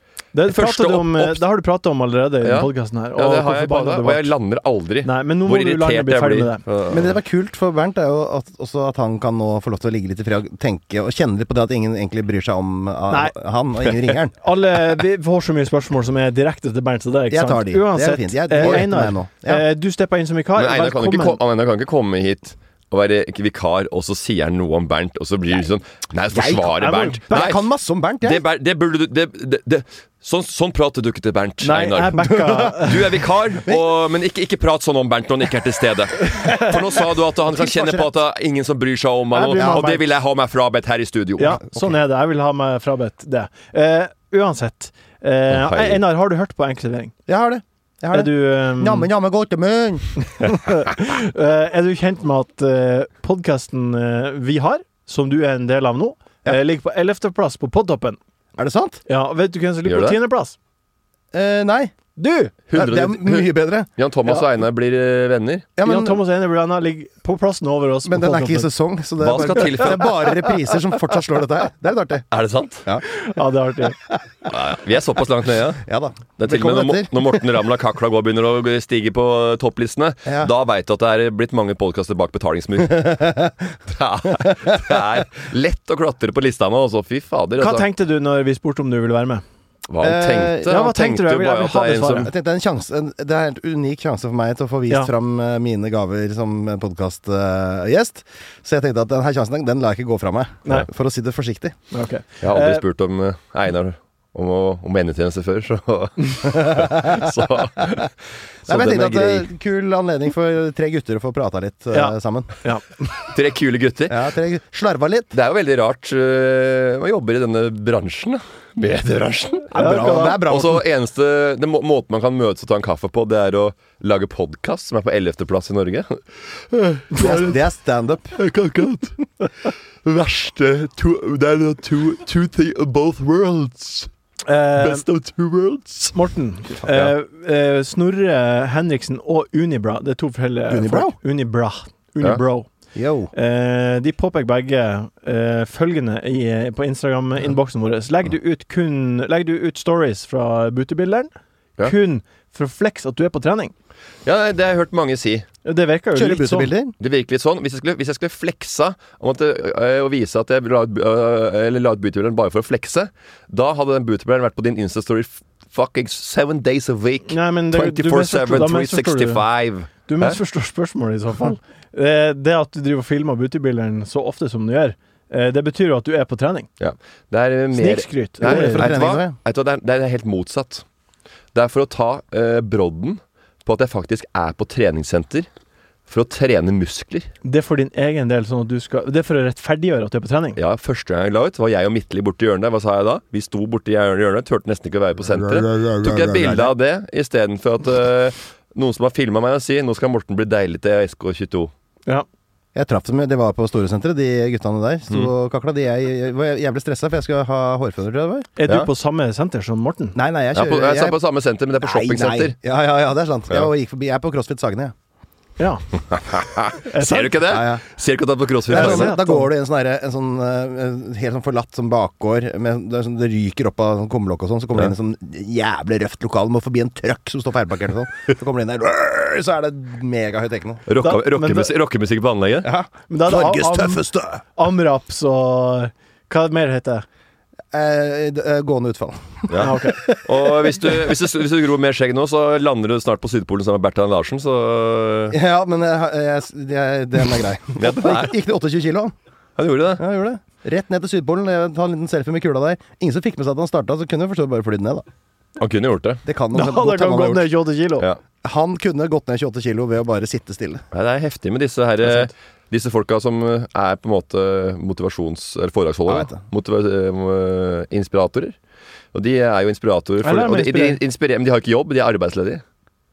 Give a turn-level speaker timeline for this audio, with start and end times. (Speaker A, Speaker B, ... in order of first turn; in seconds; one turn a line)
Speaker A: 0.3-4.3
Speaker B: 0.5-1.4
Speaker B: 2.4-7.2
Speaker A: 5.0-6.6
Speaker C: 6.9-14.3
Speaker A: 14.4-21.4
Speaker C: 17.3-19.6
Speaker B: 20.6-27.6
Speaker C: 26.3-26.8
Speaker A: 26.7-27.5
Speaker C: 27.3-28.4
Speaker B: 28.2-41.6
Speaker A: 31.6-33.0
Speaker C: 32.2-32.9
Speaker A: 36.3-36.7
Speaker C: 37.5-38.1
Speaker A: 39.3-40.0
Speaker C: 39.4-39.9
Speaker A: 41.4-47.1
Speaker C: 41.6-42.0
Speaker B: 45.5-46.0
Speaker C: 47.3-50.3
Speaker A: 48.1-49.1
Speaker A: 50.4-58.2
Speaker C: 58.6-59.0
Speaker A: 59.1-60.6
Speaker B: 59.9-60.2
Speaker C: 61.3-61.9
Speaker A: 62.2-62.5
Speaker B: 62.7-65.7
Speaker C: 62.7-63.9
Speaker C: 65.8-66.2
Speaker A: 65.8-68.7
Speaker C: 68.0-72.3
Speaker B: 69.2-70.3
Speaker B: 72.3-72.9
Speaker A: 73.1-74.0
Speaker B: 74.5-75.8
Speaker C: 75.8-77.5
Speaker B: 76.4-83.4
Speaker C: 80.3-80.5
Speaker C: 83.0-83.5
Speaker B: 83.9-87.9
Speaker A: 87.6-89.4
Speaker B: 89.9-92.3
Speaker C: 90.0-90.7
Speaker A: 90.7-92.3
Speaker C: 92.2-101.8
Speaker A: 101.9-102.8
Speaker B: 102.4-108.1
Speaker C: 106.5-108.0
Speaker B: 108.7-109.5
Speaker C: 108.7-112.5
Speaker A: 111.9-112.9
Speaker B: 113.3-114.2
Speaker C: 114.1-115.3
Speaker B: 115.3-127.7
Speaker C: 119.7-120.8
Speaker A: 119.8-120.5
Speaker C: 127.2-128.4
Speaker B: 128.3-134.1
Speaker A: 134.5-135.1
Speaker B: 134.8-136.2
Speaker A: 136.1-142.7
Speaker B: 136.8-137.1
Speaker C: 140.7-141.2
Speaker C: 142.9-143.3
Speaker A: 143.3-153.7
Speaker B: 154.2-155.5
Speaker A: 155.7-156.7
Speaker C: 156.1-156.9
Speaker B: 157.0-170.4
Speaker A: 167.3-169.4
Speaker A: 170.1-176.7
Speaker B: 176.8-180.8
Speaker A: 177.7-179.0
Speaker C: 178.4-179.4
Speaker B: 181.5-185.5
Speaker B: 186.1-187.3
Speaker A: 187.4-190.6
Speaker B: 190.6-201.7
Speaker C: 195.3-196.7
Speaker C: 202.8-208.5
Speaker A: 208.6-210.2
Speaker C: 210.2-211.2
Speaker B: 210.5-212.6
Speaker C: 211.8-214.9
Speaker A: 215.6-215.8
Speaker B: 216.1-219.2
Speaker A: 216.9-217.4
Speaker C: 217.4-217.8
Speaker C: 218.7-230.9
Speaker A: 218.7-219.5
Speaker B: 230.9-232.7
Speaker A: 231.0-231.7
Speaker C: 232.6-234.4
Speaker A: 233.1-237.1
Speaker C: 237.7-241.2
Speaker B: 239.5-245.4
Speaker A: 239.6-240.0
Speaker C: 245.3-249.1
Speaker B: 247.8-248.3
Speaker B: 249.6-250.0
Speaker C: 250.0-255.1
Speaker B: 255.6-256.2
Speaker C: 256.2-257.5
Speaker A: 256.5-258.1
Speaker C: 258.4-260.8
Speaker B: 260.9-268.6
Speaker C: 266.1-266.4
Speaker B: 269.1-272.6
Speaker A: 270.2-271.0